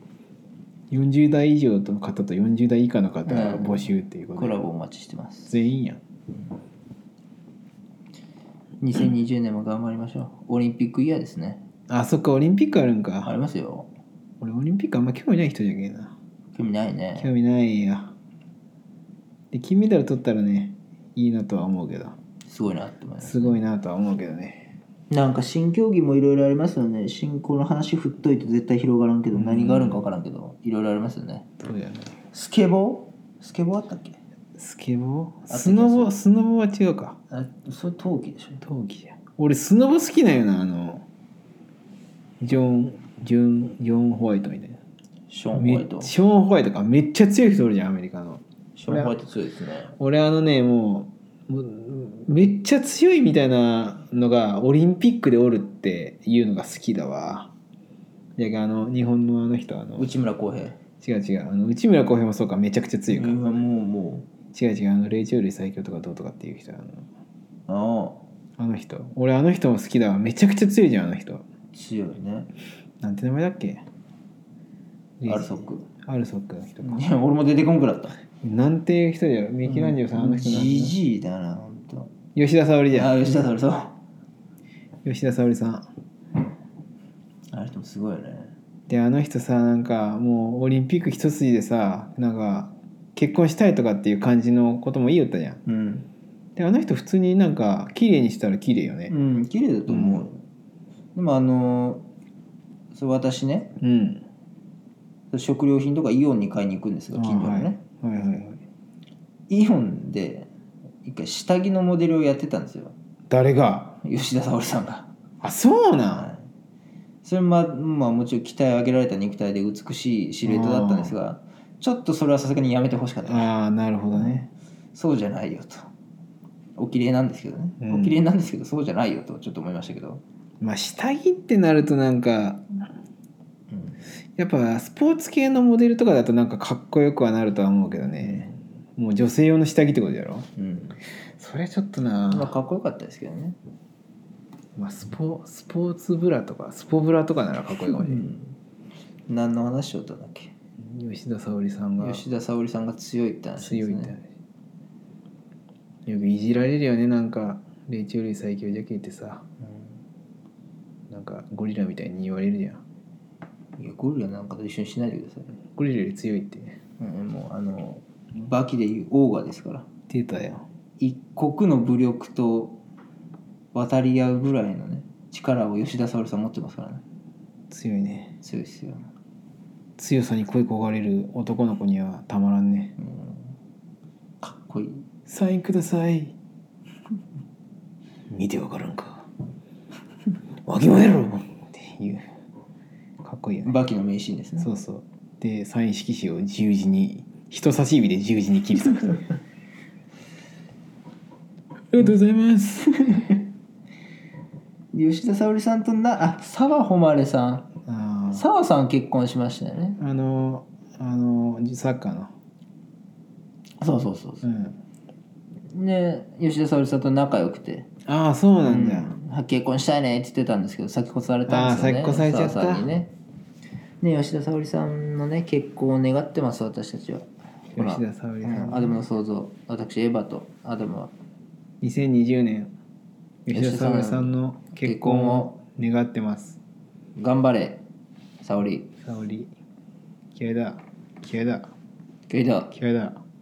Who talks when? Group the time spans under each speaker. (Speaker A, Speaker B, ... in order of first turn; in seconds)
Speaker A: 0.9-4.6, 5.5-6.0, 11.9-13.3, 14.4-16.1, 17.2-18.1, 19.5-22.1, 23.2-24.7, 29.3-30.0, 31.6-32.1, 34.6-37.2, 38.6-41.0, 42.4-44.8, 45.5-49.1, 50.0-57.5, 58.4-60.1, 61.0-63.6, 64.5-67.1, 68.6-71.4, 73.0-73.8, 75.2-77.0, 78.4-81.0, 82.3-83.5, 85.0-85.9, 88.9-95.6, 96.5-99.1, 99.9-100.3, 103.8-104.2, 107.1-108.6, 113.3-114.0, 115.4-116.3, 120.4-121.1, 123.2-124.5, 127.8-128.2, 130.6-132.7, 134.4-140.5, 141.4-142.6, 144.8-148.2, 150.8-152.2, 153.6-154.2, 156.1-159.4, 161.1-162.8, 165.8-166.8, 170.1-170.6, 177.7-178.4, 180.0-182.9, 185.3-186.3, 188.3-189.3, 190.7-192.3, 193.2-193.7, 194.6-199.3, 201.9-203.4, 207.8-208.4, 210.0-212.3, 214.4-214.8, 218.1-219.1, 221.5-222.9, 227.8-229.0, 231.8-232.7, 233.5-236.6, 239.0-239.5, 240.3-241.7, 242.7-243.2
Speaker B: 3.2-5.6, 8.8-11.6, 13.2-13.9, 16.5-17.3, 22.4-23.6, 25.1-31.5, 32.3-34.2, 35.5-36.1, 37.3-38.6, 45.3-46.1, 48.8-49.9, 60.0-60.8, 63.1-64.3, 67.7-68.2, 71.7-72.5, 75.3-75.8, 76.8-78.2, 79.6-82.1, 82.9-83.9, 87.5-88.5, 95.7-96.1, 99.1-100.4, 101.1-102.0, 102.9-103.7, 105.3-107.8, 109.5-110.5, 111.0-112.9, 114.0-115.1, 116.1-116.4, 117.2-123.5, 124.1-124.4, 124.9-125.8, 126.8-130.2, 138.2-138.6, 140.6-140.9, 142.3-143.6, 147.8-148.6, 149.3-150.5, 152.0-154.1, 163.8-165.5, 167.0-169.9, 171.0-172.8, 173.7-177.0, 178.4-179.1, 183.0-183.5, 184.4-185.0, 193.6-194.7, 204.9-207.7, 208.3-210.0, 213.8-214.4, 215.7-217.9, 218.6-223.1, 224.0-231.1, 233.5-235.5, 237.2-237.8, 238.4-238.9, 242.3-242.7